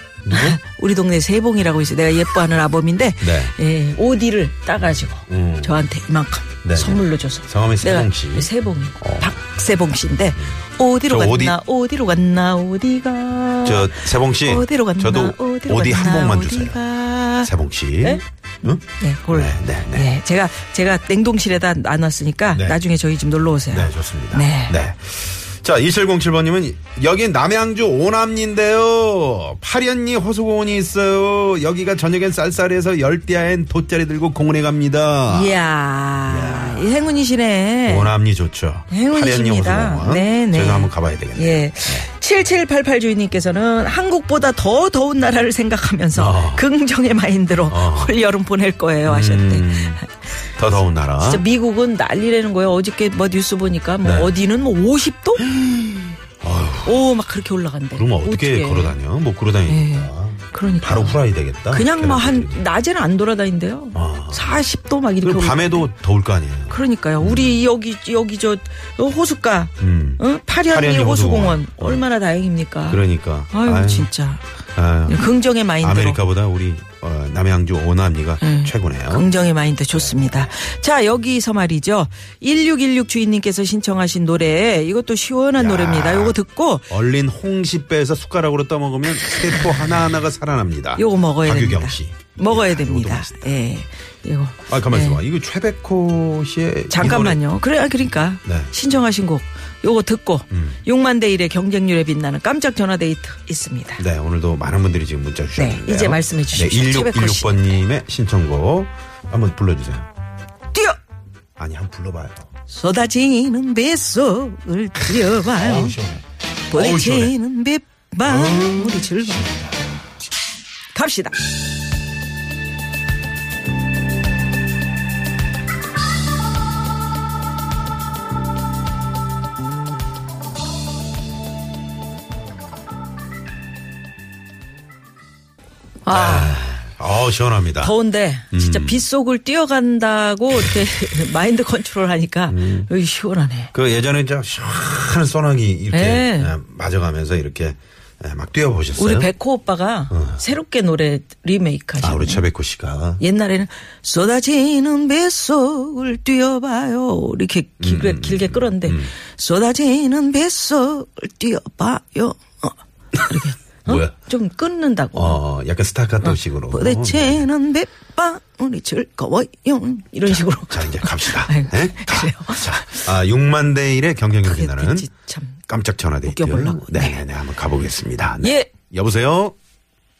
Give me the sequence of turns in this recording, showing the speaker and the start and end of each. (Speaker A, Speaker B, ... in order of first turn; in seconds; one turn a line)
Speaker A: 0.2-0.6
Speaker B: 0.3-17.5
Speaker A: 3.2-3.5
Speaker A: 5.2-5.8
Speaker A: 6.6-9.4
Speaker A: 10.3-11.6
Speaker A: 13.6-16.8
Speaker A: 17.4-20.1
Speaker B: 18.8-24.8
Speaker A: 22.5-22.8
Speaker A: 23.7-35.6
Speaker B: 35.3-38.1
Speaker A: 36.2-37.2
Speaker A: 37.9-42.1
Speaker B: 38.9-50.1
Speaker A: 46.1-46.6
Speaker A: 47.7-48.1
Speaker A: 49.0-50.0
Speaker A: 50.6-51.4
Speaker B: 51.2-55.5
Speaker A: 54.0-54.3
Speaker A: 55.5-55.9
Speaker A: 56.4-57.1
Speaker B: 56.8-59.0
Speaker A: 57.9-62.6
Speaker B: 59.7-61.2
Speaker B: 61.7-65.9
Speaker A: 63.9-64.6
Speaker A: 65.2-67.6
Speaker B: 66.7-74.4
Speaker A: 69.8-72.0
Speaker A: 72.9-74.1
Speaker A: 74.7-79.3
Speaker B: 75.1-76.2
Speaker B: 78.4-86.9
Speaker A: 79.9-80.5
Speaker A: 85.5-86.4
Speaker A: 86.9-93.5
Speaker B: 91.0-95.2
Speaker A: 94.7-97.4
Speaker B: 96.9-104.0
Speaker A: 98.4-98.7
Speaker A: 100.5-100.8
Speaker A: 104.0-110.1
Speaker B: 105.5-107.6
Speaker B: 110.7-111.0
Speaker A: 111.6-112.5
Speaker B: 112.7-116.0
Speaker A: 115.3-117.3
Speaker B: 116.7-119.5
Speaker A: 118.2-119.8
Speaker B: 120.9-121.4
Speaker B: 136.0-136.8
Speaker A: 136.1-137.9
Speaker B: 137.8-143.7
Speaker A: 138.5-139.0
Speaker A: 142.5-142.9
Speaker A: 143.7-149.3
Speaker B: 145.9-146.5
Speaker B: 149.0-152.5
Speaker A: 150.1-150.4
Speaker A: 152.0-153.2
Speaker B: 153.2-165.4
Speaker A: 157.8-159.1
Speaker A: 163.8-164.1
Speaker A: 165.1-167.5
Speaker B: 166.2-173.1
Speaker A: 170.2-175.1
Speaker B: 174.4-175.6
Speaker A: 175.7-179.5
Speaker B: 176.2-177.2
Speaker B: 178.4-178.7